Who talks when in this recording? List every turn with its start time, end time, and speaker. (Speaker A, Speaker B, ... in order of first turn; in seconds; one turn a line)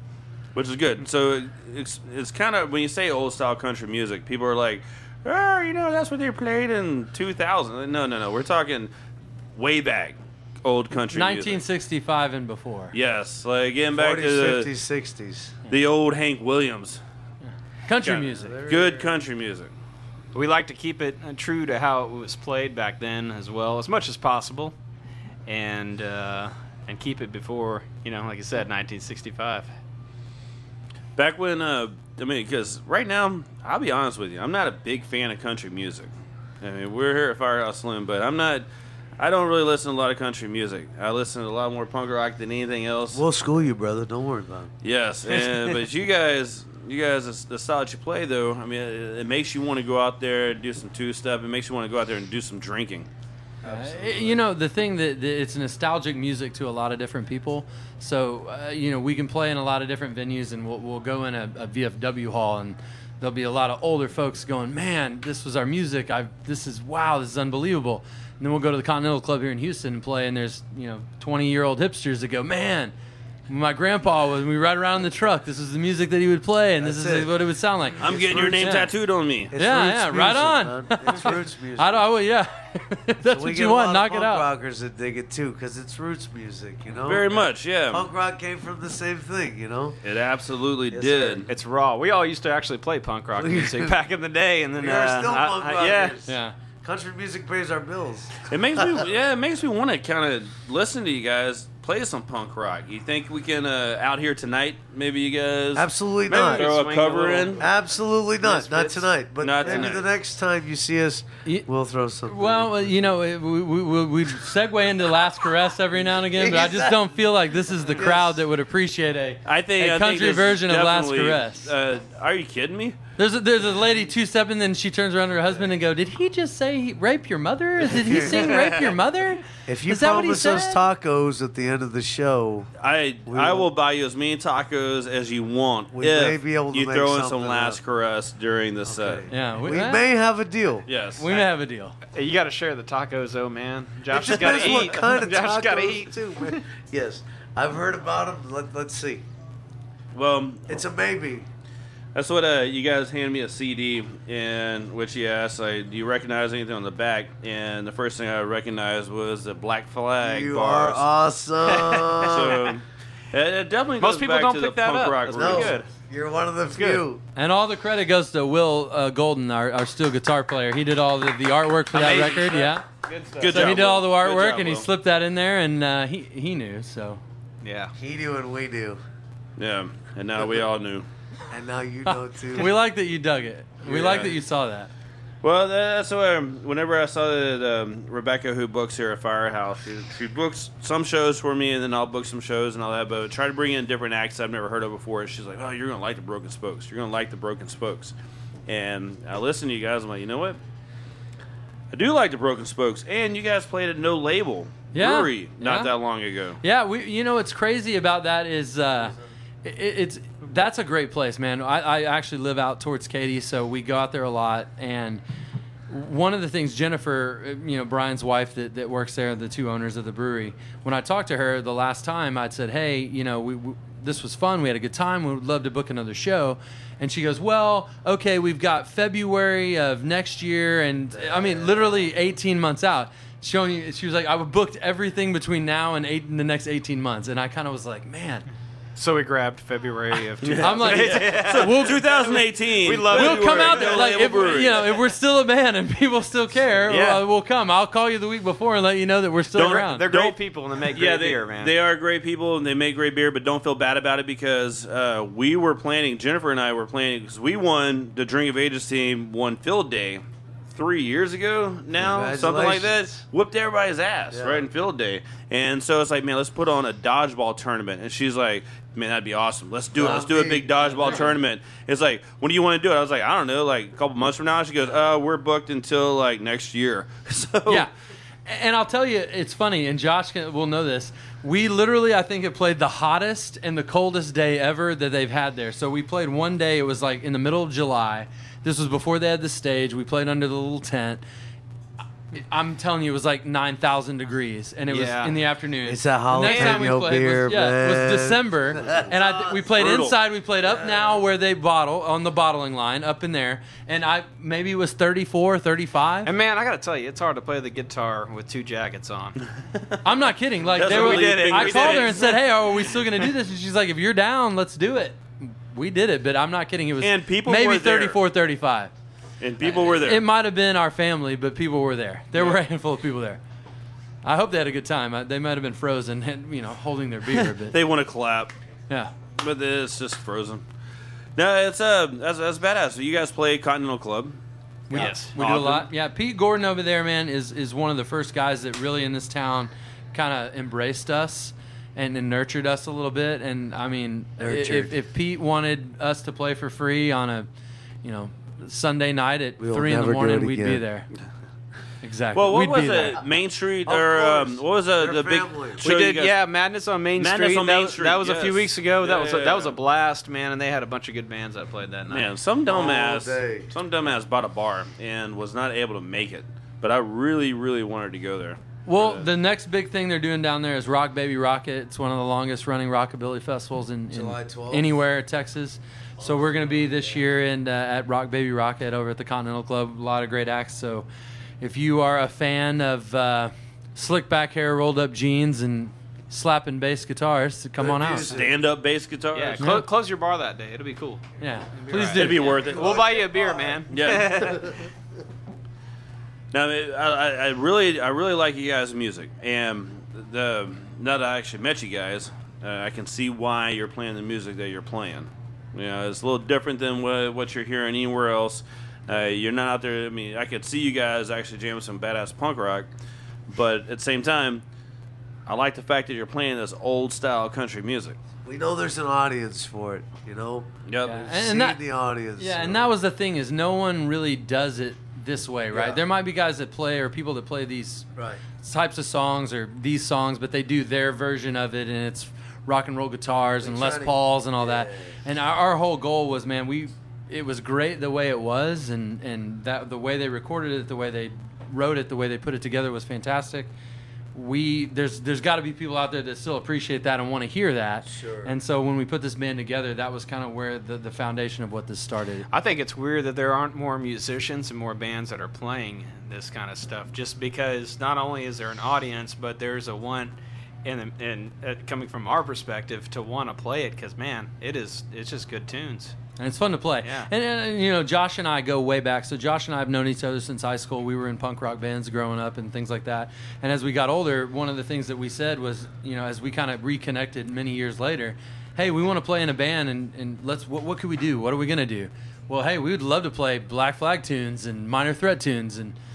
Speaker A: 0.6-8.9
Speaker A: 9.6-11.6
Speaker B: 11.1-12.9
Speaker A: 12.9-14.7
Speaker C: 13.9-15.6
Speaker A: 15.7-17.0
Speaker B: 17.9-18.6
Speaker A: 18.0-19.7
Speaker C: 18.3-19.1
Speaker D: 20.3-24.8
Speaker D: 25.5-29.7
Speaker A: 31.2-38.7
Speaker A: 39.2-43.2
Speaker C: 43.1-44.7
Speaker A: 44.8-53.1
Speaker C: 45.3-45.7
Speaker C: 53.6-54.4
Speaker B: 53.6-72.9
Speaker B: 73.5-78.9
Speaker C: 76.8-78.8
Speaker A: 78.0-79.5
Speaker C: 79.5-82.1
Speaker B: 79.5-84.5
Speaker C: 83.2-90.0
Speaker A: 87.0-88.0
Speaker A: 90.0-91.5
Speaker C: 90.9-91.5
Speaker D: 91.5-96.2
Speaker C: 93.3-94.0
Speaker C: 94.7-98.8
Speaker B: 96.3-96.5
Speaker A: 98.5-107.6
Speaker C: 105.8-106.7
Speaker D: 106.3-109.9
Speaker C: 107.6-113.1
Speaker A: 109.4-110.1
Speaker B: 112.3-121.7
Speaker C: 116.0-117.1
Speaker C: 117.7-118.4
Speaker A: 119.4-123.0
Speaker B: 123.2-130.8
Speaker C: 127.8-128.8
Speaker A: 128.4-128.8
Speaker C: 129.7-132.7
Speaker A: 132.8-139.2
Speaker C: 133.3-133.7
Speaker C: 135.9-137.8
Speaker C: 138.8-140.9
Speaker B: 139.3-140.1
Speaker A: 140.9-141.3
Speaker B: 141.2-142.0
Speaker D: 142.1-146.6
Speaker C: 144.1-149.2
Speaker A: 150.1-150.7
Speaker C: 150.7-151.5
Speaker A: 152.2-161.1
Speaker C: 160.2-162.7
Speaker D: 161.7-162.6
Speaker A: 162.2-165.8
Speaker D: 164.0-165.9
Speaker C: 165.3-167.2
Speaker D: 166.7-167.1
Speaker B: 167.4-172.8
Speaker A: 171.9-172.7
Speaker D: 171.9-174.0
Speaker A: 173.4-174.9
Speaker B: 173.5-177.2
Speaker D: 177.6-177.9
Speaker C: 177.9-179.0
Speaker A: 179.6-181.1
Speaker C: 181.5-182.7
Speaker B: 182.6-184.9
Speaker A: 183.8-184.4
Speaker A: 185.4-198.1
Speaker A: 198.7-200.6
Speaker A: 201.9-206.6
Speaker B: 204.9-205.9
Speaker B: 206.6-215.2
Speaker B: 215.9-238.4
Speaker C: 231.1-232.0
Speaker D: 239.0-245.0
Speaker A: 240.4-245.0
Speaker B: 240.6-242.3
Speaker B: 243.1-250.0
Speaker D: 246.8-247.2
Speaker A: 249.5-250.4
Speaker D: 249.6-251.8
Speaker A: 250.9-277.9
Speaker C: 261.9-263.2
Speaker C: 264.3-264.7
Speaker C: 269.9-271.4
Speaker B: 278.5-291.2
Speaker B: 292.3-306.3
Speaker D: 294.9-295.4
Speaker C: 295.8-299.8
Speaker D: 296.4-297.0
Speaker A: 299.7-300.2
Speaker C: 300.6-301.2
Speaker D: 306.2-309.4
Speaker B: 310.0-318.9
Speaker A: 310.8-312.4
Speaker D: 310.8-312.4
Speaker A: 317.0-318.2
Speaker A: 319.4-320.3
Speaker B: 319.6-323.4
Speaker A: 322.3-322.6
Speaker B: 324.2-327.8
Speaker A: 327.6-328.5
Speaker A: 329.4-330.6
Speaker A: 331.4-334.4
Speaker B: 334.9-347.5
Speaker D: 334.9-335.5
Speaker A: 334.9-335.9
Speaker C: 344.4-345.0
Speaker B: 348.0-351.1
Speaker C: 349.6-350.9
Speaker B: 352.0-353.2
Speaker A: 352.3-356.4
Speaker C: 353.9-355.9
Speaker D: 355.8-362.4
Speaker A: 357.2-359.8
Speaker A: 362.1-369.3
Speaker C: 362.6-363.7
Speaker B: 368.9-381.1
Speaker C: 374.1-375.1
Speaker C: 376.2-377.4
Speaker B: 381.6-388.4
Speaker C: 387.8-388.6
Speaker A: 388.2-389.7
Speaker D: 389.3-394.7
Speaker B: 389.6-389.9
Speaker B: 391.4-392.7
Speaker C: 391.7-393.8
Speaker A: 392.1-393.1
Speaker A: 393.9-394.6
Speaker A: 396.5-412.9
Speaker A: 413.5-414.6
Speaker A: 415.5-418.2
Speaker C: 418.4-422.9
Speaker A: 420.9-421.5
Speaker B: 421.1-421.8
Speaker B: 422.4-428.1
Speaker C: 425.7-426.0
Speaker C: 428.2-428.4
Speaker B: 428.6-443.7
Speaker C: 433.6-435.2
Speaker B: 444.4-452.5
Speaker C: 448.0-448.6
Speaker D: 452.5-466.2
Speaker B: 466.4-486.0
Speaker D: 467.0-467.3